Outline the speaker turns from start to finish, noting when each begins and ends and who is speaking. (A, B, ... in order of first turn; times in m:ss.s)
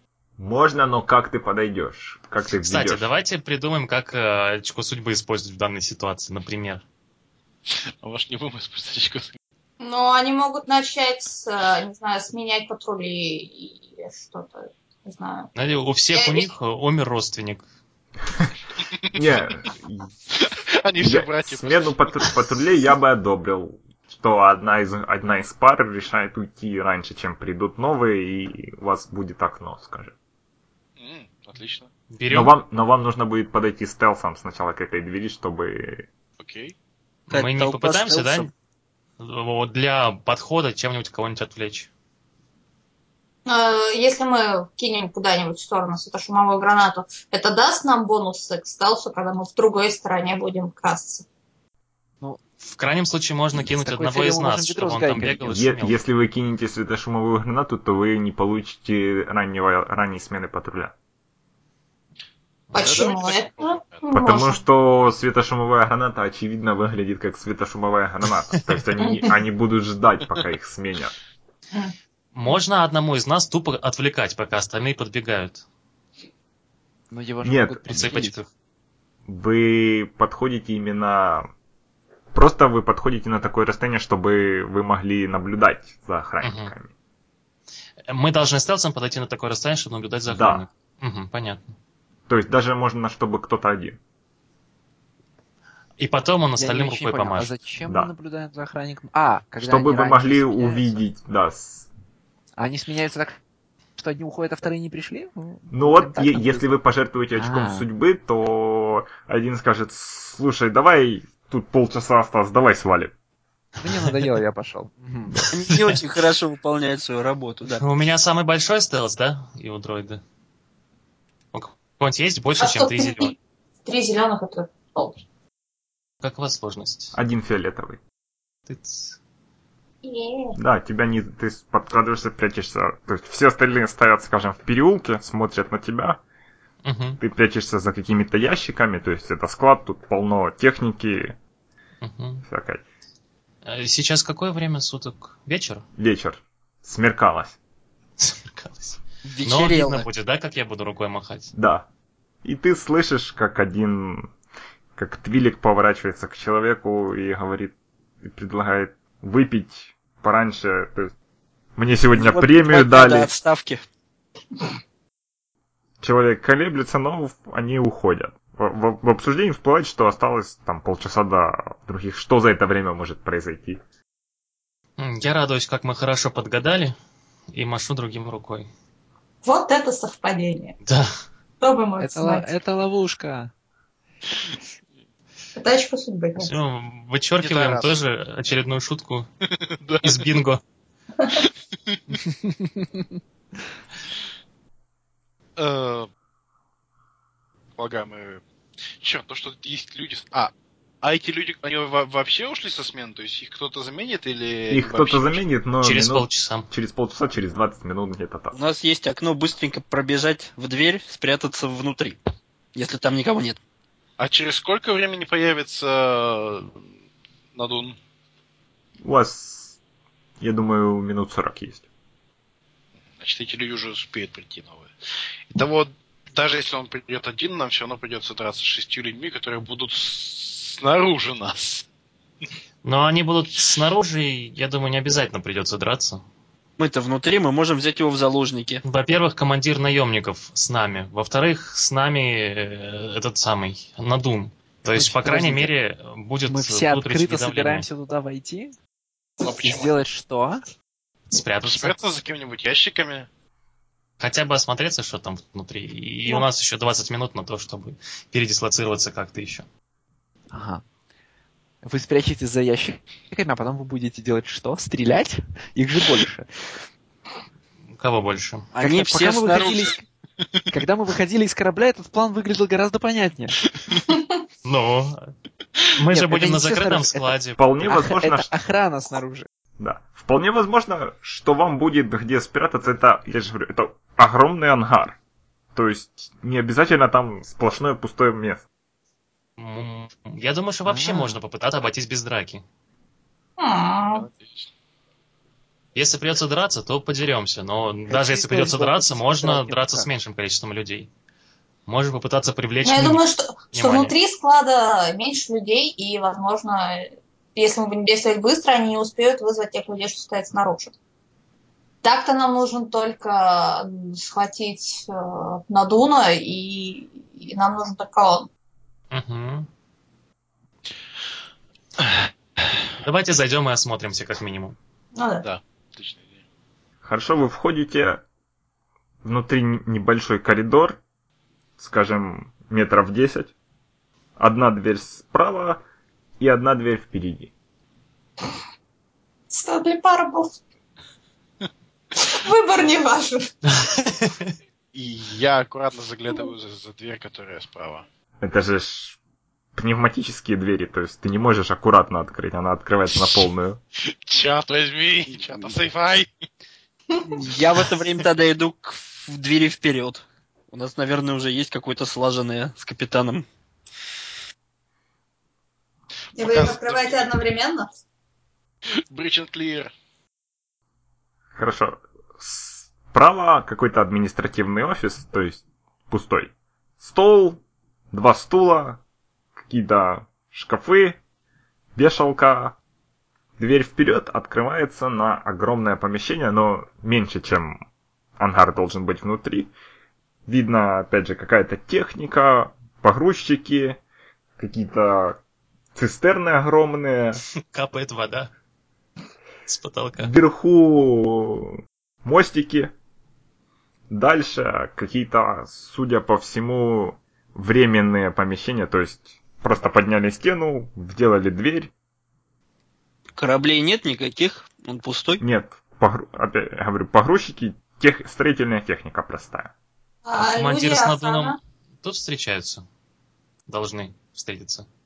0:00.4-0:03.1 A
0:02.6-0:06.8 B
0:07.7-0:09.4 C
0:09.8-0:15.5 D
0:15.6-0:17.6 B
0:16.1-0:16.5 D
0:18.8-0:19.5 C
0:19.1-0:20.1 A
0:20.3-0:22.4 C
0:21.0-0:30.1 A
0:31.0-0:31.9 C
0:32.1-0:32.6 B
0:32.3-0:36.1 A
0:36.4-0:36.7 C
0:37.3-0:38.5 B
0:37.3-0:38.5 E
0:39.2-0:41.9 B
0:43.5-0:51.3 D
0:52.6-0:56.0 B
0:53.6-0:55.5 F
0:55.5-1:00.9 A
1:02.7-1:03.0 B
1:02.7-1:04.6 D
1:02.8-1:04.0 C
1:04.1-1:11.2 A
1:09.0-1:09.3 D
1:12.3-1:15.6 B
1:17.1-1:18.4 F
1:17.4-1:17.8 A
1:17.9-1:18.5 B
1:19.3-1:21.5 A
1:22.3-1:26.9 A
1:26.4-1:26.7 B
1:28.1-1:31.8 B
1:30.3-1:30.6 A
1:32.3-1:34.0 A
1:36.0-1:37.6 B
1:36.6-1:41.0 F
1:37.8-1:38.1 A
1:39.6-1:41.9 A
1:42.6-1:43.4 F
1:44.0-1:46.7 F
1:45.7-1:53.1 A
1:47.4-1:47.8 F
1:53.8-1:55.4 F
1:55.5-1:57.8 E
1:57.7-2:00.2 B
2:01.5-2:03.3 B
2:02.6-2:05.2 D
2:06.2-2:07.2 B
2:07.1-2:08.0 A
2:08.7-2:09.2 B
2:10.0-2:10.6 D
2:10.6-2:16.2 A
2:16.8-2:17.2 B
2:17.2-2:21.4 A
2:22.0-2:22.4 B
2:22.5-2:22.8 A
2:23.6-2:25.8 B
2:26.0-2:27.6 A
2:28.2-2:31.5 B
2:29.3-2:30.1 E
2:31.6-2:31.9 A
2:32.4-2:34.3 A
2:35.0-2:41.1 A
2:41.8-2:43.3 A
2:42.1-2:43.8 E
2:46.0-2:53.8 A
2:55.0-2:56.9 B
2:57.5-2:58.7 B
2:59.4-3:00.8 D
3:00.8-3:01.2 B
3:01.6-3:02.5 D
3:02.0-3:03.5 F
3:05.6-3:06.5 D
3:06.4-3:09.3 B
3:07.4-3:08.0 C
3:09.6-3:10.3 C
3:10.0-3:10.6 B
3:11.4-3:12.2 C
3:12.1-3:13.2 F
3:15.6-3:16.1 C
3:17.8-3:18.4 C
3:19.0-3:25.4 C
3:24.7-3:28.6 A
3:25.8-3:26.7 B
3:28.5-3:32.2 E
3:32.8-3:33.6 E
3:34.2-3:36.8 C
3:37.5-3:38.0 C
3:39.0-3:39.8 A
3:40.4-3:41.8 A
3:43.2-3:44.9 C
3:45.5-3:51.9 C
3:52.8-3:56.2 B
3:56.8-3:58.8 E
3:58.8-4:07.9 B
4:04.9-4:05.7 F
4:06.5-4:08.7 F
4:09.4-4:10.0 C
4:09.6-4:10.6 F
4:11.3-4:12.0 B
4:11.6-4:13.3 C
4:14.2-4:19.7 B
4:20.5-4:20.8 F
4:21.8-4:26.5 F
4:27.9-4:28.7 B
4:28.7-4:29.9 E
4:28.8-4:30.1 F
4:30.4-4:30.7 C
4:30.7-4:33.6 F
4:33.6-4:34.0 C
4:34.1-4:34.4 D
4:34.6-4:35.3 B
4:36.0-4:37.6 B
4:36.1-4:39.5 F
4:37.6-4:38.5 A
4:39.8-4:45.2 A
4:45.7-4:48.6 A
4:49.6-4:52.6 B
4:50.9-4:51.4 F
4:53.6-4:54.3 D
4:54.1-4:54.7 C
4:56.0-5:01.1 B
4:58.1-5:00.1 F
5:01.9-5:03.2 B
5:02.8-5:10.9 D
5:03.7-5:04.1 B
5:12.0-5:18.5 D
5:19.1-5:19.7 B
5:22.0-5:22.7 C
5:23.0-5:24.8 B
5:25.2-5:25.5 D
5:25.4-5:26.4 C
5:27.0-5:28.2 A
5:29.2-5:31.0 A
5:31.8-5:33.5 A
5:34.4-5:35.8 A
5:36.4-5:37.5 A
5:39.5-5:40.6 D
5:42.2-5:43.5 D
5:43.8-5:44.5 B
5:44.9-5:48.0 C
5:48.4-5:49.2 A
5:49.8-5:53.8 A
5:54.2-5:56.3 C
5:55.5-5:55.8 E
5:57.3-6:03.4 E
6:06.4-6:07.3 C
6:06.4-6:07.9 D
6:09.1-6:09.9 C
6:11.6-6:19.0 A
6:19.7-6:21.2 A
6:22.0-6:22.8 A
6:23.6-6:27.8 A
6:28.4-6:29.7 A
6:30.5-6:34.0 A
6:34.6-6:35.4 A
6:36.0-6:37.4 A
6:37.7-6:38.5 B
6:39.7-6:40.3 B
6:40.2-6:42.9 A
6:44.1-6:51.9 A
6:53.4-6:55.4 E
6:55.4-6:59.7 A
7:00.2-7:01.6 D
7:00.4-7:02.8 B
7:03.7-7:04.9 B